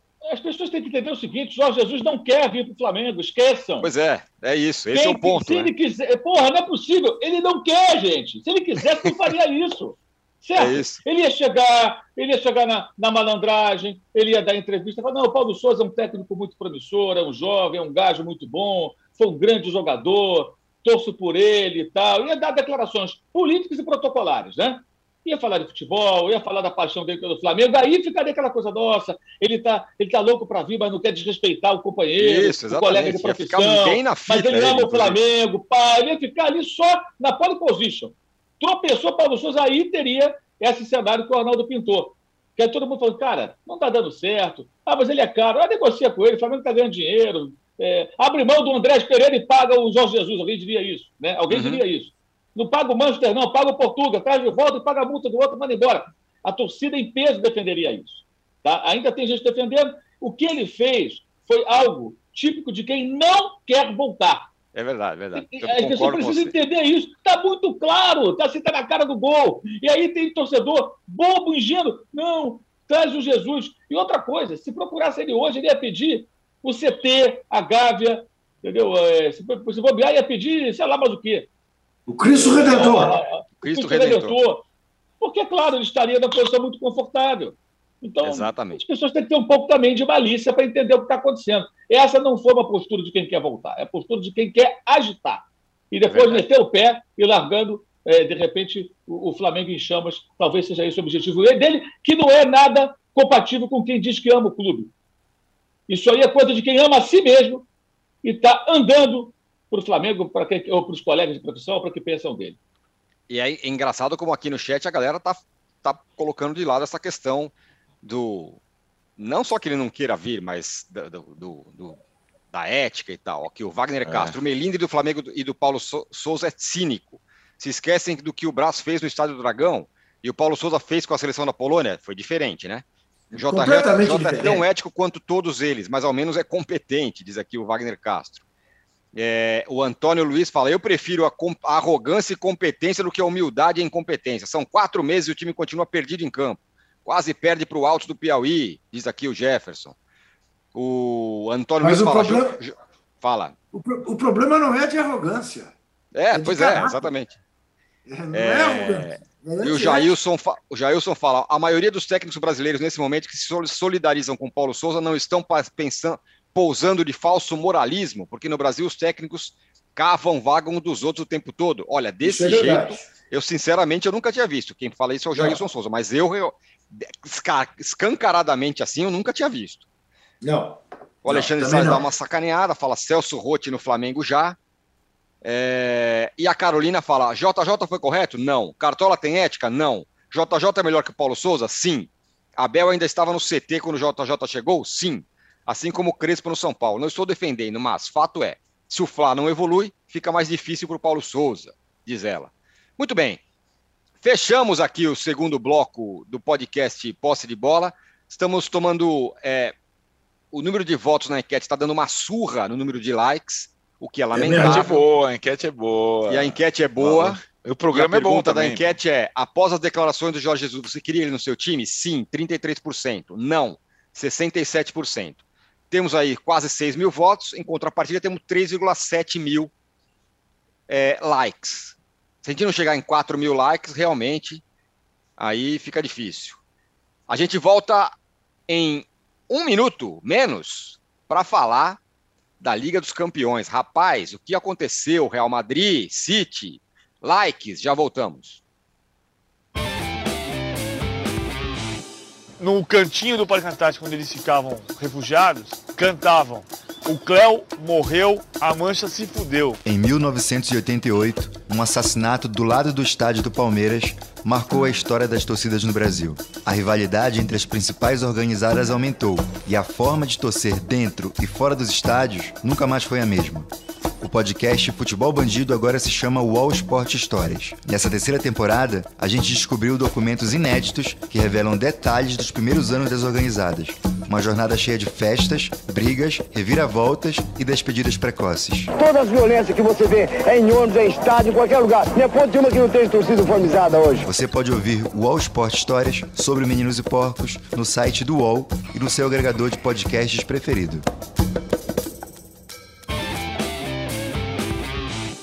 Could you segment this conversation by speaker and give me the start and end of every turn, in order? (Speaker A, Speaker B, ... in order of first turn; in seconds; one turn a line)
Speaker A: 0.3-3.9
Speaker B: 3.8-5.7
Speaker A: 4.9-64.5
Speaker B: 10.6-11.0
Speaker B: 32.2-35.2
Speaker B: 51.5-51.8
Speaker B: 64.7-66.5
Speaker A: 65.3-81.5
Speaker C: 82.1-83.2
Speaker A: 82.3-84.7
Speaker B: 83.6-84.4
Speaker A: 85.2-104.9
Speaker B: 88.2-88.8
Speaker B: 96.1-96.4
Speaker A: 105.9-107.7
Speaker A: 108.2-112.6
Speaker B: 113.3-118.6
Speaker B: 119.2-122.0
Speaker B: 122.5-138.4
Speaker D: 124.1-124.4
Speaker C: 133.3-134.7
Speaker B: 139.1-149.9
Speaker B: 150.7-153.5
Speaker C: 151.8-152.6
Speaker C: 153.7-155.8
Speaker B: 156.1-157.4
Speaker C: 156.3-157.1
Speaker C: 158.1-160.1
Speaker B: 158.3-179.8
Speaker C: 172.2-173.1
Speaker C: 175.3-175.6
Speaker C: 180.4-182.1
Speaker B: 181.2-184.6
Speaker B: 185.4-203.4
Speaker B: 204.2-209.8
Speaker B: 210.5-215.1
Speaker C: 214.3-214.9
Speaker D: 214.5-218.9
Speaker B: 216.3-217.4
Speaker B: 217.9-225.4
Speaker B: 225.9-229.7
Speaker B: 230.9-234.6
Speaker B: 235.4-236.6
Speaker B: 237.3-238.2
Speaker B: 238.7-242.0
Speaker B: 242.6-248.6
Speaker E: 252.6-259.8
Speaker F: 259.9-288.9
Speaker G: 288.9-294.3
Speaker F: 294.2-301.1